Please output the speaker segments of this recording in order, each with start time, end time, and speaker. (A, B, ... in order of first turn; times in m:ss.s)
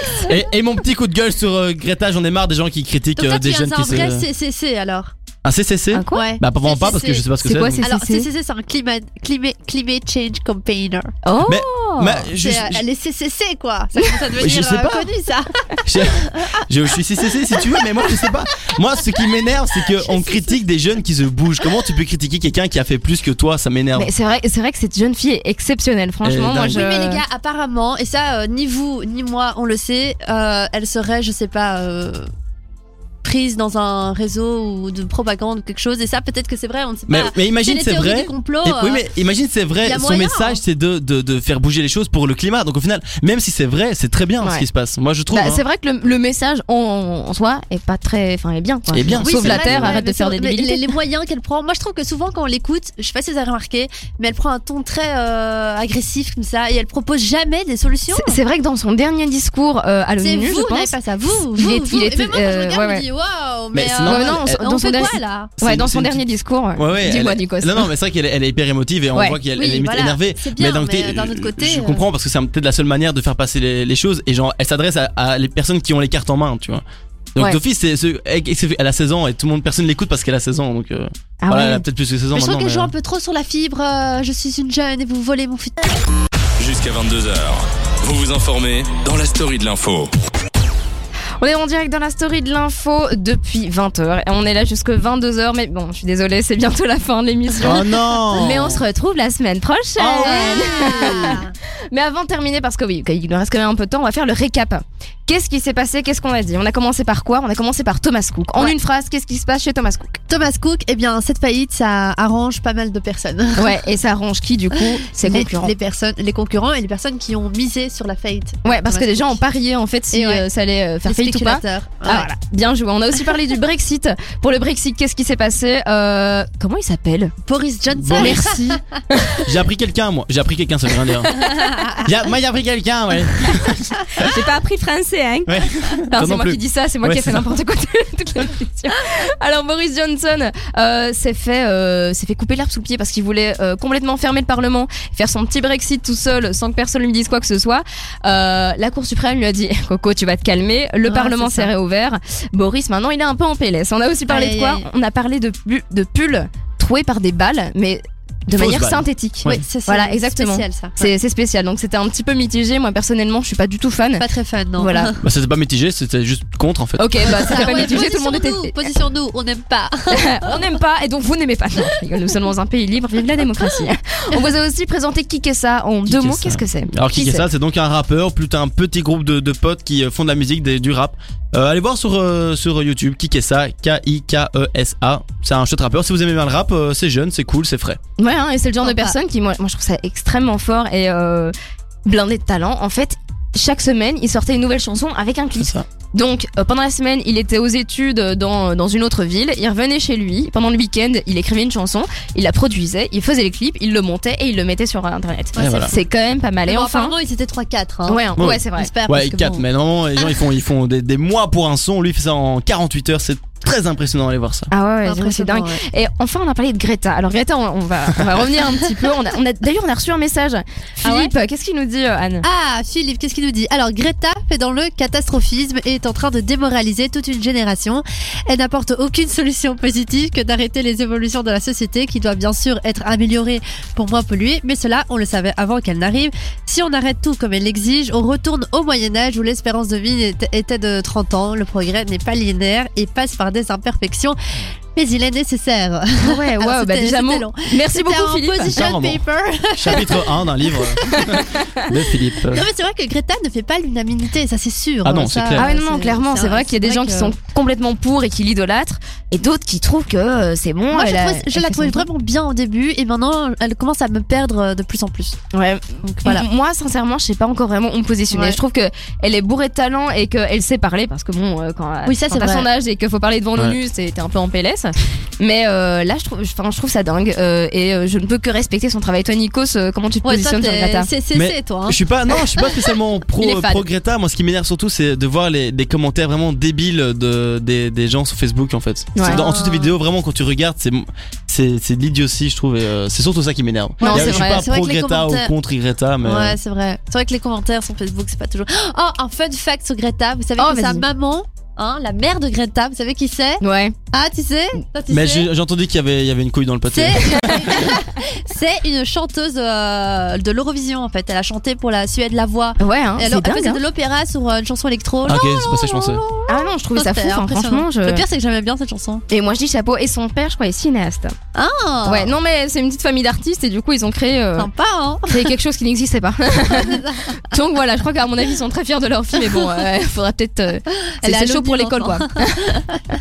0:00.1-0:04.2 A
0:03.2-0:05.1 B
0:05.4-0:07.8 A
0:05.9-0:06.2 C
0:06.1-0:07.3 B
0:07.4-0:08.3 C
0:07.8-0:11.1 B
0:11.2-0:12.3 C
0:11.4-0:12.8 A
0:12.3-0:16.6 B
0:14.3-0:15.1 A
0:15.8-0:24.1 A
0:17.5-0:18.3 B
0:19.7-0:20.6 B
0:23.9-0:27.2 C
0:26.2-0:26.9 A
0:26.6-0:32.3 B
0:33.2-0:39.0 B
0:37.1-0:45.6 A
0:39.8-0:40.6 B
0:45.3-0:50.9 C
0:48.9-0:50.0 A
0:49.1-0:58.4 B
0:58.1-1:00.9 C
1:00.2-1:05.5 B
1:01.5-1:03.0 C
1:03.7-1:04.8 A
1:04.0-1:07.9 C
1:05.6-1:06.2 A
1:06.7-1:16.8 A
1:09.5-1:12.0 B
1:17.3-1:22.9 A
1:21.4-1:21.8 C
1:22.3-1:26.0 B
1:26.6-1:30.1 D
1:31.4-1:50.2 C
1:37.6-1:38.8 A
1:40.0-1:41.4 A
1:40.2-1:41.5 B
1:50.3-1:53.7 B
1:53.6-1:55.7 C
1:55.2-1:59.4 B
1:58.6-2:07.3 C
2:00.1-2:00.4 B
2:01.0-2:02.3 B
2:07.4-2:08.8 B
2:07.9-2:08.6 A
2:08.1-2:09.4 C
2:09.4-2:11.4 A
2:11.5-2:12.0 B
2:12.0-2:14.4 A
2:14.2-2:44.2 C
2:15.5-2:17.4 A
2:31.0-2:31.7 B
2:34.3-2:34.8 B
2:38.5-2:39.6 A
2:39.5-2:41.1 B
2:44.2-2:45.2 B
2:44.8-2:45.1 C
2:45.2-2:47.9 A
2:47.0-2:48.9 C
2:47.2-2:50.6 B
2:50.1-2:57.5 C
2:56.0-3:08.0 A
3:08.2-3:11.5 C
3:08.8-3:09.2 B
3:12.0-3:27.1 C
3:15.6-3:15.8 A
3:25.5-3:26.0 B
3:25.6-3:25.9 A
3:26.7-3:29.6 B
3:28.1-3:28.9 C
3:28.4-3:34.7 A
3:34.7-3:42.4 C
3:35.0-3:35.8 B
3:41.0-3:41.3 B
3:42.4-4:04.4 B
4:04.9-4:11.4 B
4:06.2-4:08.8 C
4:08.6-4:09.2 A
4:09.7-4:12.7 A
4:11.1-4:11.8 C
4:11.9-4:17.3 B
4:15.0-4:15.7 A
4:15.5-4:22.1 C
4:20.9-4:25.4 B
4:25.5-4:41.1 C
4:26.0-4:26.4 B
4:28.3-4:28.6 B
4:32.0-4:32.7 B
4:40.2-4:42.7 B
4:41.3-4:56.6 A
4:43.4-4:43.8 C
4:49.1-4:49.4 C
4:49.2-4:50.0 B
4:54.0-4:54.6 C
4:54.0-4:55.5 B
4:56.2-5:05.5 B
5:00.6-5:01.0 C
5:03.6-5:03.9 C
5:05.1-5:07.9 A
5:06.9-5:19.2 B
5:12.8-5:13.8 C
5:15.2-5:16.2 A
5:16.5-5:18.2 C
5:19.3-5:21.3 C
5:21.5-5:22.4 B
5:22.0-5:24.7 C
5:24.6-5:25.5 B
5:25.3-5:32.8 C
5:26.6-5:27.4 B
5:31.2-5:33.0 B